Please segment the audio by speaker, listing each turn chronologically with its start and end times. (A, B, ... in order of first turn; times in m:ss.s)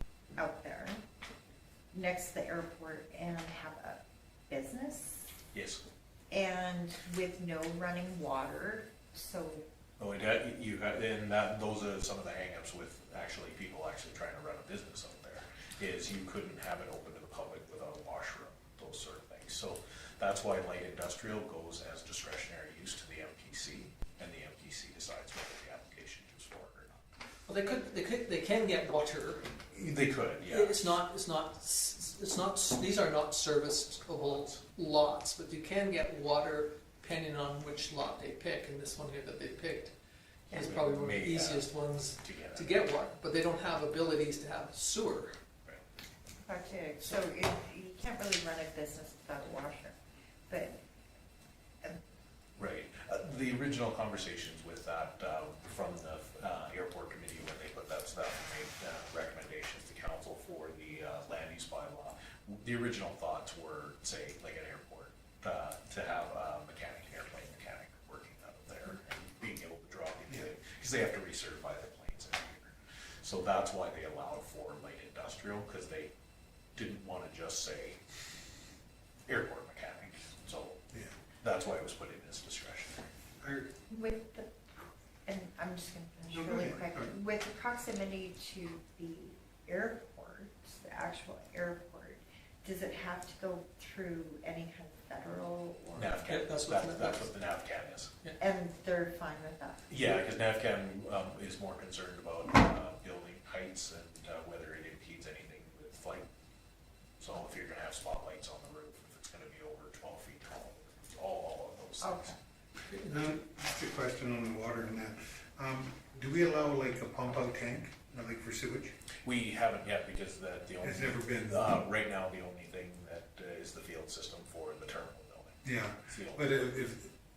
0:00.4-0:01.0 A
0:01.9-0:05.3 A
0:05.5-0:05.8 B
0:06.3-0:09.6 A
0:10.0-0:27.0 B
0:27.5-0:29.5 C
0:29.7-0:31.0 B
0:30.5-0:39.9 C
0:34.1-0:34.6 B
0:40.5-0:45.4 C
0:40.5-0:42.7 B
0:46.4-0:50.0 A
0:50.5-0:50.8 A
0:52.6-1:16.1 B
1:16.8-1:18.0 B
1:19.3-1:20.8 B
1:21.4-1:23.1 B
1:23.4-1:23.7 D
1:23.9-1:24.5 A
1:25.3-1:36.3 A
1:26.3-1:27.1 D
1:36.0-1:38.1 B
1:36.3-1:37.3 C
1:38.4-1:39.9 A
1:39.9-1:46.3 B
1:47.2-1:52.3 B
1:52.0-1:52.4 A
1:52.9-1:53.3 C
1:53.0-1:58.9 D
1:59.2-2:06.7 B
2:00.8-2:01.8 D
2:05.6-2:07.1 D